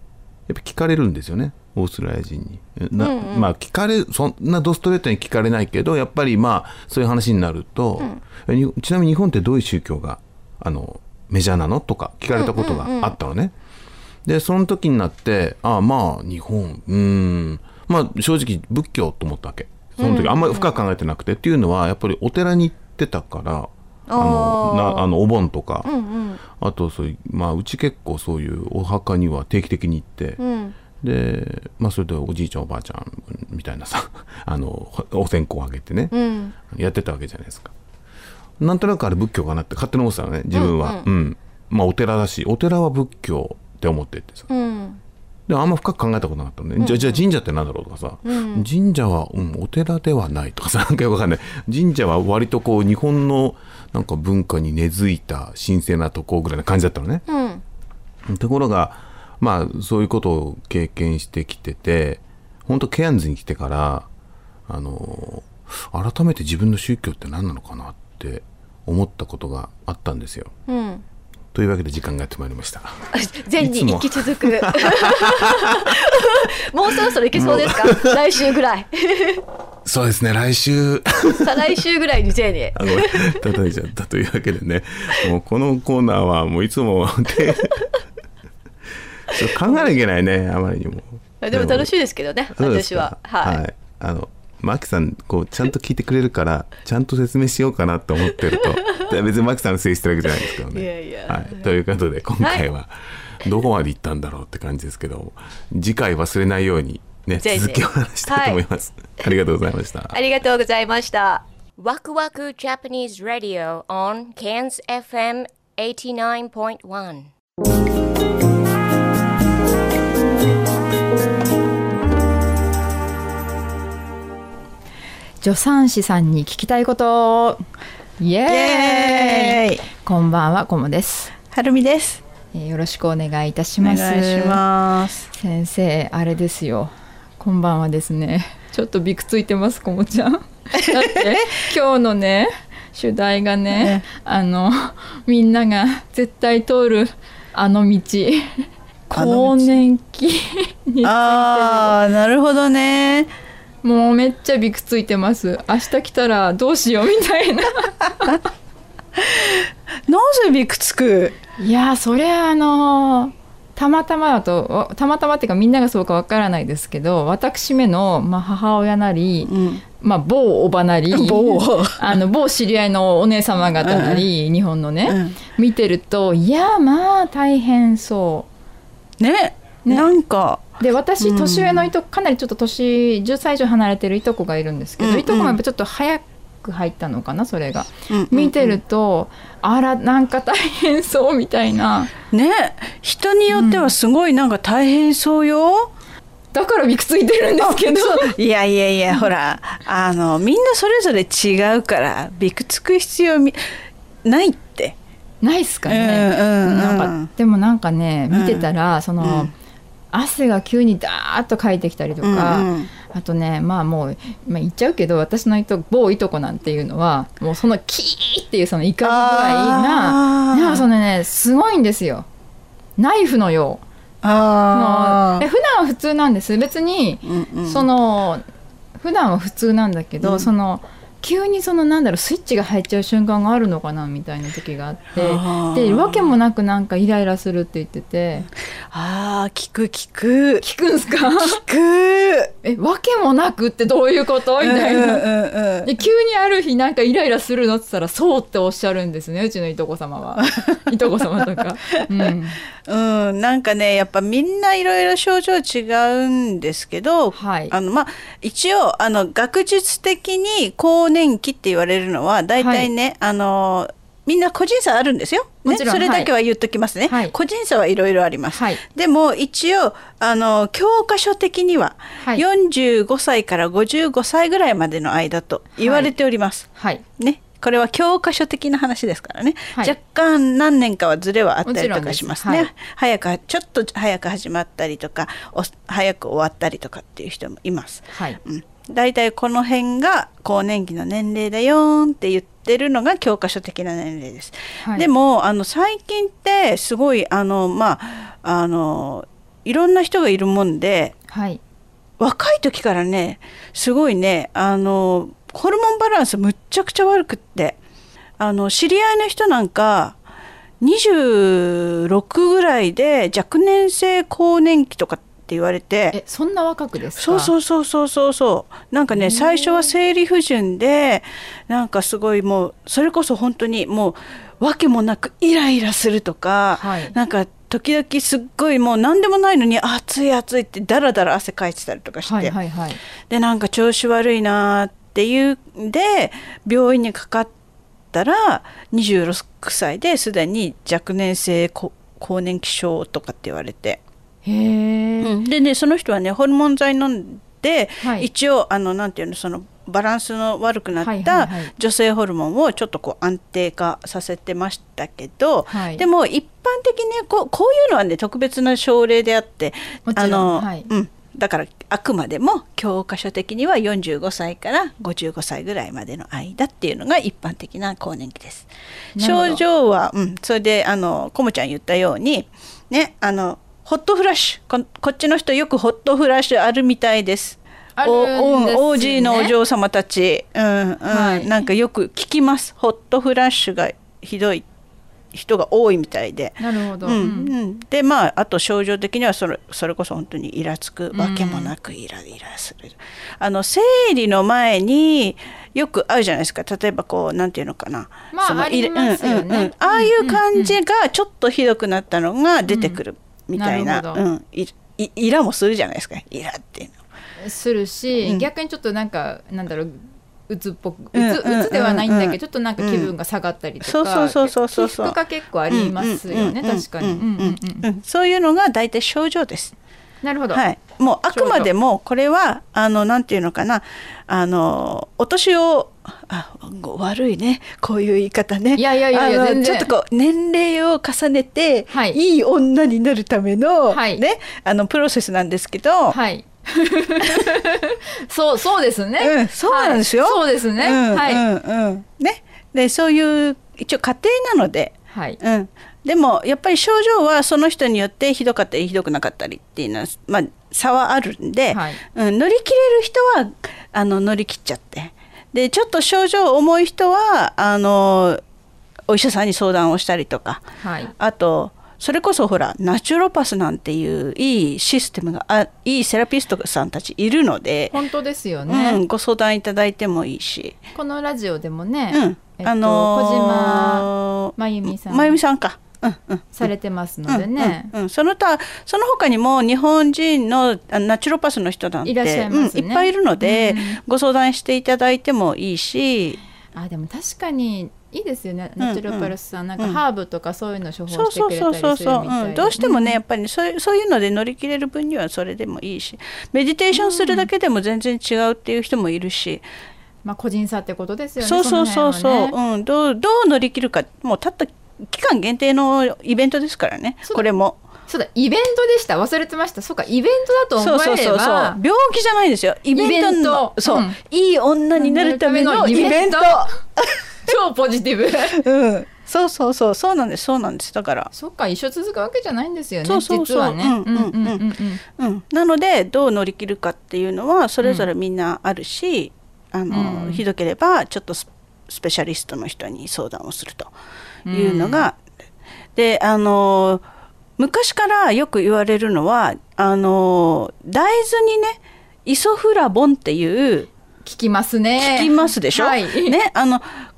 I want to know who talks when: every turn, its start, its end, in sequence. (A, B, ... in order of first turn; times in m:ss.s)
0:00.5-0:13.5 A
0:03.0-0:03.5 B
0:12.3-0:13.1 B
0:14.2-0:25.9 A
0:20.0-0:20.7 B
0:24.1-0:25.1 B
0:25.8-0:26.4 B
0:26.5-0:30.4 A
0:30.4-0:30.8 B
0:31.0-0:37.7 A
0:36.1-0:36.5 B
0:38.6-0:44.5 A
0:40.5-0:41.0 B
0:44.5-0:45.0 B
0:45.5-0:57.2 A
0:46.8-0:47.2 B
0:48.2-0:48.7 B
0:57.3-0:57.6 B
0:58.3-1:04.1 A
1:04.7-1:10.5 A
1:10.7-1:11.0 B
1:11.5-1:13.0 A
1:13.1-1:19.4 B
1:13.6-1:15.9 A
1:17.3-1:18.2 A
1:19.8-1:21.5 A
1:21.4-1:23.4 B
1:22.7-1:27.8 A
1:29.3-1:31.9 A
1:29.6-1:29.9 B
1:31.4-1:33.6 B
1:32.6-1:50.1 A
1:38.5-1:39.0 B
1:40.7-1:41.7 B
1:42.4-1:42.6 B
1:47.4-1:48.6 B
1:50.1-1:51.4 B
1:51.8-1:57.3 C
2:05.4-2:07.6 D
2:08.2-2:11.4 D
2:08.5-2:09.8 E
2:11.4-2:12.2 E
2:12.5-2:14.6 D
2:13.8-2:15.3 E
2:15.3-2:31.9 D
2:20.8-2:21.4 E
2:23.7-2:24.0 E
2:29.1-2:29.7 E
2:31.0-2:33.3 E
2:33.8-2:38.4 D
2:39.2-2:41.4 E
2:41.6-2:58.5 D
2:49.4-2:49.8 E
2:51.1-2:52.2 E
2:53.8-2:54.2 E
2:55.1-2:55.4 E
2:59.2-3:01.9 E
2:59.8-3:00.1 D
3:00.8-3:12.1 D
3:05.0-3:05.6 E
3:08.1-3:08.8 E
3:12.3-3:15.9 E
3:13.5-3:13.9 D
3:16.5-3:18.3 D
3:17.6-3:23.6 E
3:24.2-3:25.0 E
3:25.4-3:29.5 D
3:25.9-3:27.3 E
3:28.3-3:28.7 E
3:29.2-3:29.5 E
3:30.1-3:42.2 D
3:32.2-3:32.9 E
3:39.0-3:40.8 E
3:43.0-3:43.8 D
3:44.2-3:45.4 E
3:44.7-3:48.4 D
3:47.2-3:47.8 E
3:49.0-3:58.5 D
3:50.2-3:50.5 E
3:55.1-3:56.3 E
3:58.9-4:00.6 E
4:00.6-4:01.6 D
4:01.4-4:02.5 E
4:02.6-4:05.2 D
4:04.6-4:05.9 E
4:05.8-4:12.6 D
4:11.9-4:12.3 E
4:12.9-5:01.1 E
4:17.3-4:17.7 D
4:22.6-4:22.9 D
4:25.6-4:26.3 D
4:27.0-4:27.3 D
4:28.5-4:28.8 D
4:35.7-4:36.1 D
4:36.7-4:37.0 D
4:41.6-4:42.7 D
4:48.1-4:48.4 D
4:54.8-4:55.1 D
5:01.3-5:01.6 D
5:02.2-5:07.8 E
5:08.4-5:10.2 E
5:10.8-5:16.2 E
5:16.1-5:17.5 D
5:17.2-5:32.5 E
5:19.1-5:19.9 D
5:26.8-5:27.1 D
5:32.2-5:33.0 D
5:33.3-5:37.5 E
5:38.1-5:44.0 E
5:44.4-5:45.4 D
5:45.2-6:24.6 E
5:48.0-5:48.3 D
5:51.0-5:51.7 D
5:55.7-5:56.0 D
6:00.0-6:00.9 D
6:09.2-6:09.6 D
6:18.0-6:19.5 D
6:21.1-6:21.5 D
6:25.3-6:46.9 E
6:26.6-6:27.5 D
6:31.1-6:31.7 D
6:38.3-6:40.8 D
6:42.7-6:43.0 D
6:43.5-6:44.2 D
6:47.4-6:57.8 D
6:48.2-6:48.5 E
6:51.1-6:53.1 E
6:53.8-6:55.2 E
6:55.7-6:59.7 E
7:00.2-7:00.6 D
7:00.5-7:16.2 E
7:01.3-7:01.7 D
7:08.8-7:09.9 D
7:11.9-7:12.2 D
7:13.9-7:14.2 D
7:16.1-7:21.4 D
7:19.2-7:38.4 E
7:25.1-7:25.4 D
7:31.7-7:32.0 D
7:39.1-7:40.6 E
7:40.8-7:41.1 D
7:41.2-7:48.0 E
7:47.9-7:49.0 D
7:48.7-7:50.8 E
7:50.9-7:55.4 D
7:52.1-7:56.7 E
7:56.5-7:57.9 D
7:57.3-8:06.4 E
8:02.0-8:04.0 D
8:06.7-8:13.2 D
8:08.8-8:10.0 E
8:11.1-8:19.6 E
8:16.9-8:17.5 D
8:20.2-8:22.5 D
8:21.4-8:27.8 E
8:28.1-8:31.8 D
8:30.8-8:37.5 E
8:32.9-8:34.2 D
8:35.0-8:36.9 D
8:37.4-8:38.6 D
8:38.5-8:41.3 E
8:41.3-8:45.0 D
8:43.0-8:44.6 E
8:45.2-8:53.9 E
8:47.8-8:48.1 D
8:49.9-8:50.4 D
8:54.4-8:55.1 D
8:54.5-8:55.2 E
8:56.0-8:57.0 E
8:57.6-9:03.9 E
9:04.2-9:06.4 D
9:05.0-9:06.9 E